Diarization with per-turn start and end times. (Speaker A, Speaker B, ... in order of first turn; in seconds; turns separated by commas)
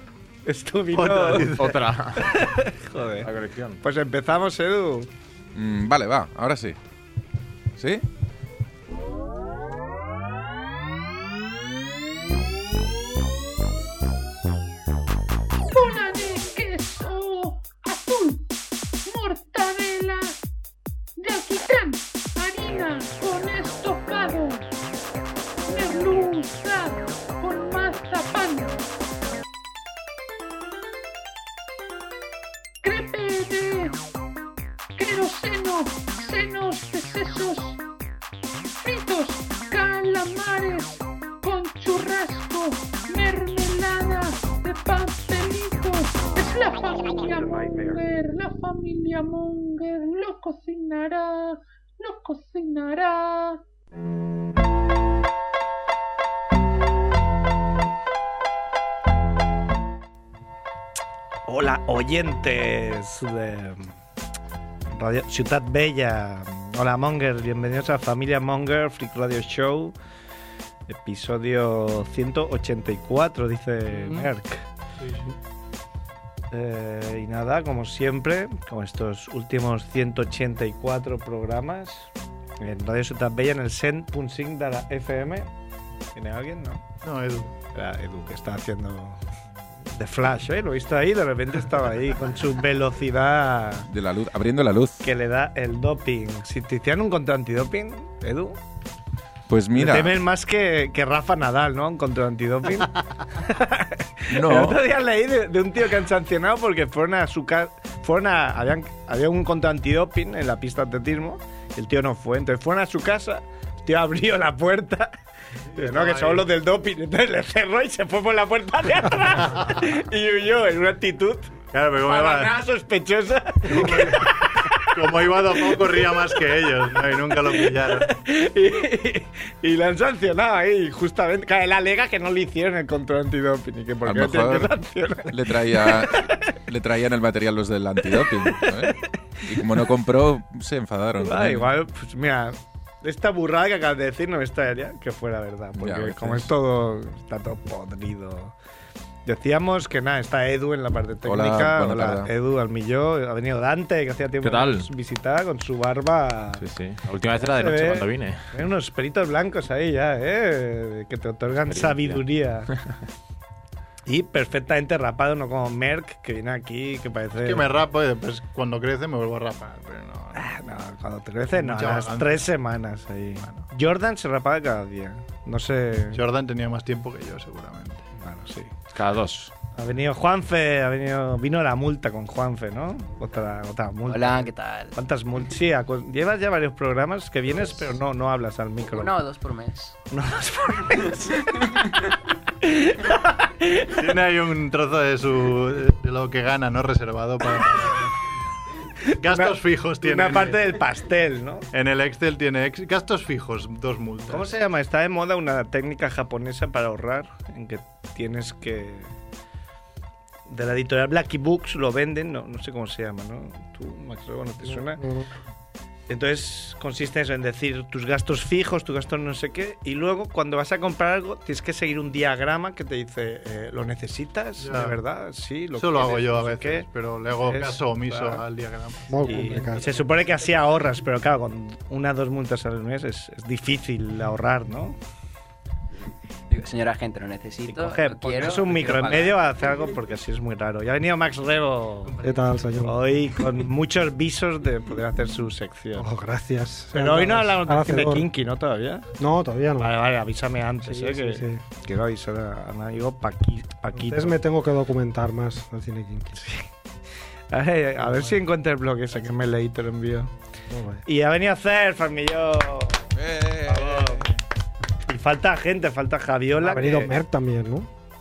Speaker A: 0.5-1.5, Speaker B: 0.9-1.9, Speaker C: 1.4-2.4, Speaker A: 2.2-5.1, Speaker C: 3.2-3.8, Speaker D: 5.5-6.8, Speaker D: 7.8-8.0, Speaker E: 15.6-18.5, Speaker E: 19.1-20.4, Speaker E: 21.2-24.6, Speaker E: 25.7-28.9, Speaker E: 32.8-34.0, Speaker E: 35.0-37.8, Speaker E: 38.8-53.6, Speaker A: 61.5-64.0, Speaker A: 64.9-70.0, Speaker A: 70.9-74.7, Speaker B: 73.9-74.3, Speaker B: 75.0-75.3, Speaker A: 76.5-85.5, Speaker A: 86.2-86.8, Speaker B: 87.0-87.5, Speaker A: 87.7-89.2, Speaker A: 89.9-93.9, Speaker D: 93.9-95.0, Speaker A: 95.0-98.6, Speaker D: 99.5-100.2, Speaker A: 99.8-115.1, Speaker D: 104.3-104.8, Speaker B: 115.7-116.5, Speaker A: 115.8-126.1, Speaker B: 119.5-119.8, Speaker B: 121.7-122.6, Speaker B: 123.6-128.1, Speaker A: 127.5-136.4, Speaker D: 134.1-134.7, Speaker D: 135.2-141.7, Speaker A: 138.2-139.9, Speaker A: 141.2-148.5, Speaker D: 145.8-146.5, Speaker A: 149.3-156.7, Speaker D: 151.2-152.3, Speaker C: 154.4-154.9, Speaker C: 156.6-158.5, Speaker A: 157.3-162.9, Speaker C: 161.5-162.3, Speaker A: 164.1-167.7, Speaker B: 167.4-170.5, Speaker A: 170.3-176.2, Speaker B: 171.5-172.5, Speaker B: 173.4-173.7, Speaker B: 176.1-178.1, Speaker A: 178.2-178.7, Speaker C: 178.9-179.5, Speaker A: 179.8-189.2, Speaker F: 184.1-184.9, Speaker F: 188.9-190.0, Speaker A: 190.1-191.4, Speaker F: 191.6-191.9, Speaker A: 192.6-194.0, Speaker B: 193.9-198.1, Speaker A: 199.0-201.7, Speaker B: 199.1-200.7, Speaker B: 201.7-204.5, Speaker A: 204.3-209.1, Speaker A: 210.5-215.0, Speaker G: 214.6-215.3, Speaker A: 216.1-226.9, Speaker B: 224.6-225.0, Speaker B: 225.8-229.4, Speaker A: 227.4-228.4, Speaker G: 229.1-229.9, Speaker A: 229.2-235.0, Speaker F: 236.5-239.4, Speaker A: 237.7-242.2, Speaker G: 242.2-243.2, Speaker A: 242.8-246.1, Speaker G: 246.0-248.3, Speaker A: 246.9-249.1, Speaker G: 249.2-249.9, Speaker A: 249.8-254.4, Speaker G: 250.8-251.6, Speaker G: 253.9-256.4, Speaker A: 256.4-256.7, Speaker A: 257.5-260.3, Speaker G: 260.7-261.0, Speaker A: 261.1-264.3, Speaker C: 263.3-264.0, Speaker A: 265.1-267.2, Speaker G: 266.6-267.9